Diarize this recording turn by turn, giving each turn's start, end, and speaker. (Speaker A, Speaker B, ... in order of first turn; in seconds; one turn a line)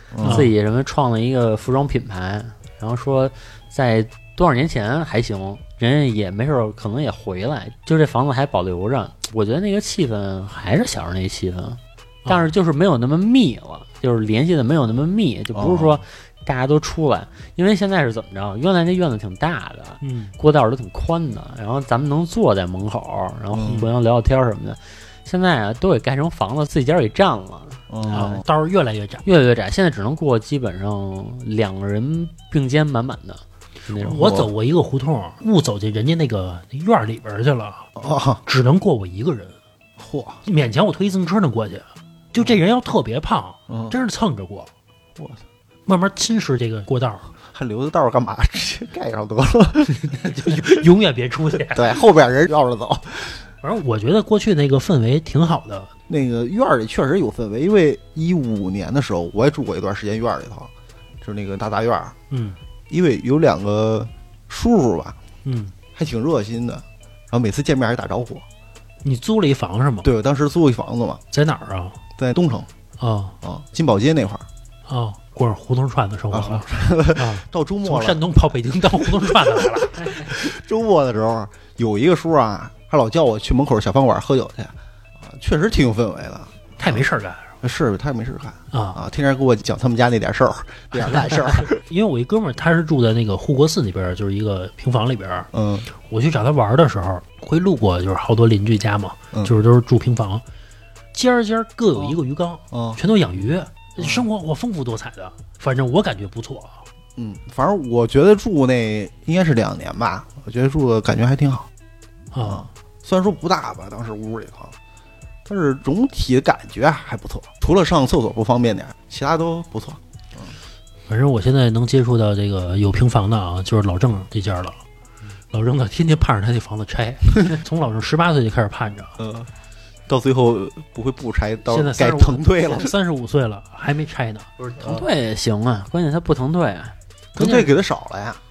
Speaker A: 0.1-0.5
Speaker B: 0.2-0.5
Speaker C: 0.2-28.3
Speaker B: 12.2-12.5
Speaker A: 15.5-16.0
Speaker B: 20.0-20.3
Speaker A: 23.5-23.9
Speaker A: 27.9-28.4
Speaker B: 28.1-29.2
Speaker C: 29.2-34.5
Speaker B: 34.0-37.9
Speaker A: 34.0-34.5
Speaker A: 38.0-38.4
Speaker B: 38.5-39.6
Speaker A: 40.0-40.4
Speaker B: 40.5-44.7
Speaker A: 43.7-44.0
Speaker B: 45.9-47.3
Speaker A: 47.5-50.7
Speaker B: 49.9-52.0
Speaker A: 51.7-53.4
Speaker B: 53.6-55.9
Speaker A: 56.1-60.7
Speaker A: 61.2-62.2
Speaker B: 62.3-62.6
Speaker A: 62.9-65.2
Speaker B: 65.5-65.7
Speaker A: 66.0-68.5
Speaker B: 69.0-70.1
Speaker A: 70.0-71.2
Speaker B: 71.3-72.0
Speaker A: 72.2-72.7
Speaker B: 73.0-73.4
Speaker A: 73.4-74.5
Speaker B: 74.9-80.4
Speaker A: 76.3-78.2
Speaker A: 79.2-87.0
Speaker B: 86.8-87.5
Speaker A: 87.6-91.8
Speaker B: 88.7-89.0
Speaker B: 90.9-100.4
Speaker A: 95.5-95.9
Speaker B: 101.1-106.8
Speaker A: 102.7-103.0
Speaker A: 104.0-104.3
Speaker A: 107.2-111.7
Speaker B: 112.3-112.7
Speaker A: 112.5-114.8
Speaker A: 115.5-120.5
Speaker B: 121.1-124.8
Speaker B: 125.5-129.2
Speaker A: 129.2-129.5
Speaker A: 130.1-132.9
Speaker B: 131.7-134.8
Speaker C: 134.8-136.9
Speaker B: 137.4-137.7
Speaker A: 137.4-138.4